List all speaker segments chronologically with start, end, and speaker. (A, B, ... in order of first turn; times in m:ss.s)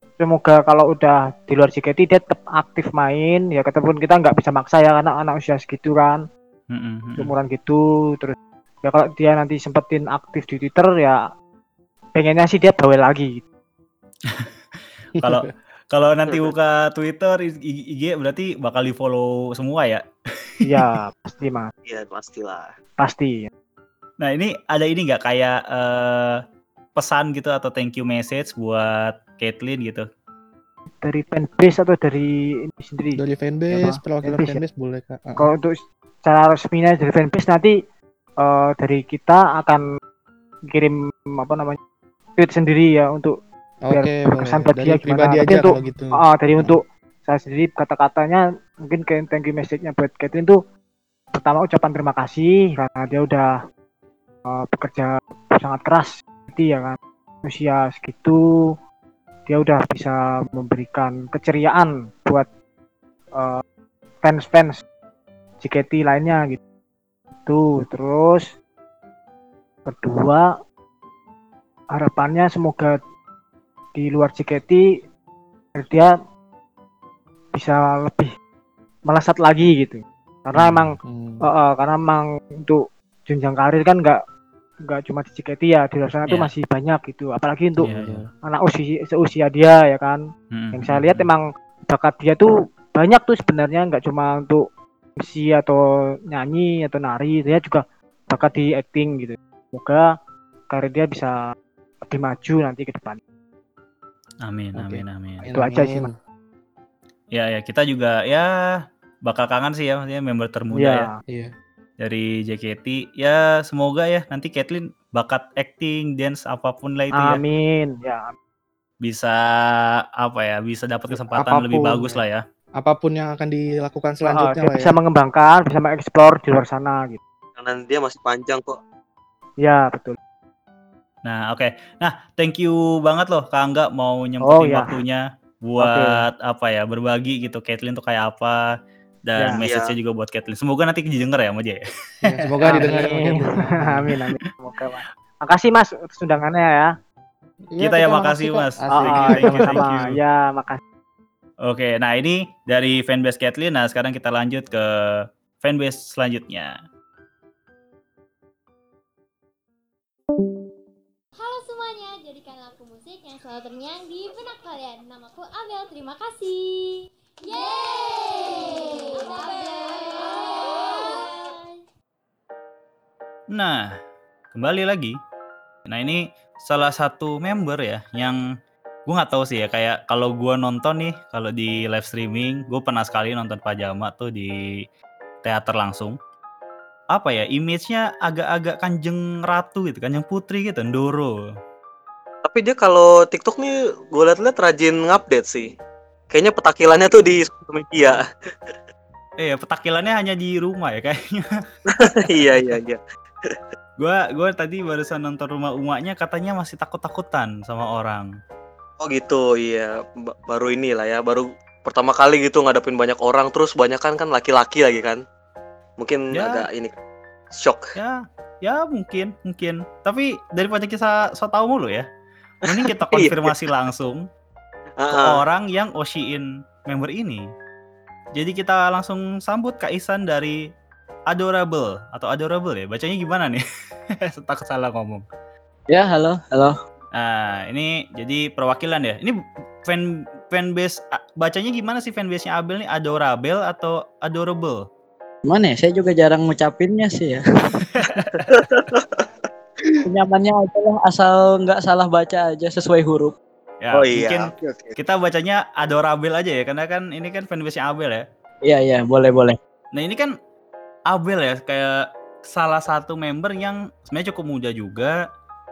0:00.2-0:06.2 A
0:06.7-0:07.3 B
0:07.2-0:11.2 A
0:12.1-0:13.4 A
0:15.2-0:15.5 C
0:15.2-0:20.5 B
0:16.3-0:16.5 D
0:20.6-0:21.7 A
0:21.8-0:22.7 D
0:23.0-0:23.5 A
0:24.2-0:26.4 B
0:27.0-0:30.0 B
0:31.0-0:33.2 A
0:33.2-0:35.5 C
0:33.7-0:34.6 A
0:35.4-0:37.7 A
0:38.4-0:39.8 A
0:40.7-0:41.8 A
0:42.4-0:43.4 A
0:43.8-0:46.8 C
0:43.9-0:50.6 A
0:51.3-0:53.5 A
0:54.5-0:58.4 A
0:59.5-1:02.5 A
1:03.3-1:03.6 A
1:04.2-1:04.8 A
1:05.6-1:06.6 A
1:07.5-1:08.5 A
1:09.9-1:10.5 A
1:11.9-1:13.0 A
1:13.9-1:14.8 A
1:15.8-1:16.1 A
1:17.5-1:18.3 A
1:19.1-1:24.2 A
1:20.6-1:20.9 B
1:21.0-1:21.4 C
1:24.9-1:27.9 A
1:27.8-1:28.3 C
1:27.8-1:28.2 B
1:28.4-1:30.2 A
1:30.5-1:31.3 B
1:30.7-1:34.6 A
1:35.2-1:35.8 A
1:36.3-1:40.1 A
1:40.7-1:41.3 A
1:42.0-1:43.2 A
1:44.4-1:45.4 B
1:44.8-1:46.1 C
1:45.5-1:46.1 A
1:47.3-1:48.5 B
1:49.2-1:51.1 B
1:50.7-1:51.1 A
1:52.0-1:57.4 B
1:57.2-1:58.3 A
1:59.0-1:59.3 B
2:00.2-2:02.4 B
2:01.3-2:02.2 C
2:02.8-2:04.9 C
2:04.2-2:07.2 A
2:07.6-2:08.8 D
2:09.6-2:10.2 A
2:11.2-2:18.6 B
2:14.4-2:14.9 A
2:15.8-2:16.2 A
2:19.2-2:21.8 B
2:19.4-2:19.6 A
2:19.6-2:19.9 D
2:22.2-2:24.1 C
2:22.6-2:26.9 A
2:27.7-2:29.9 C
2:27.8-2:30.1 B
2:28.9-2:30.8 A
2:31.6-2:34.8 B
2:35.6-2:36.7 B
2:41.4-2:51.6 E
2:53.5-2:53.9 B
2:54.5-2:55.2 B
2:55.9-2:58.4 B
2:59.1-3:04.5 B
3:05.4-3:06.2 B
3:07.1-3:11.4 B
3:12.4-3:15.7 D
3:16.3-3:18.7 D
3:19.4-3:21.4 B
3:21.9-3:23.6 D
3:22.0-3:22.8 B
3:24.0-3:28.3 B
3:29.0-3:35.2 D
3:36.0-3:36.9 D
3:36.3-3:36.6 B
3:37.5-3:37.8 D
3:38.0-3:42.1 B
3:42.6-3:44.2 B
3:42.7-3:43.5 D
3:45.0-3:45.4 D
3:45.1-3:47.4 B
3:48.4-3:50.6 B
3:51.3-3:53.6 B
3:54.3-3:55.2 B
3:55.9-3:56.7 F
3:57.2-3:59.3 B
3:59.8-4:04.8 B
4:05.5-4:07.7 F
4:08.0-4:08.4 B
4:08.2-4:09.2 D
4:10.0-4:13.3 F
4:13.8-4:18.2 B
4:13.9-4:14.9 D
4:18.6-4:19.6 F
4:19.9-4:20.3 B
4:21.1-4:21.9 B
4:22.5-4:25.1 B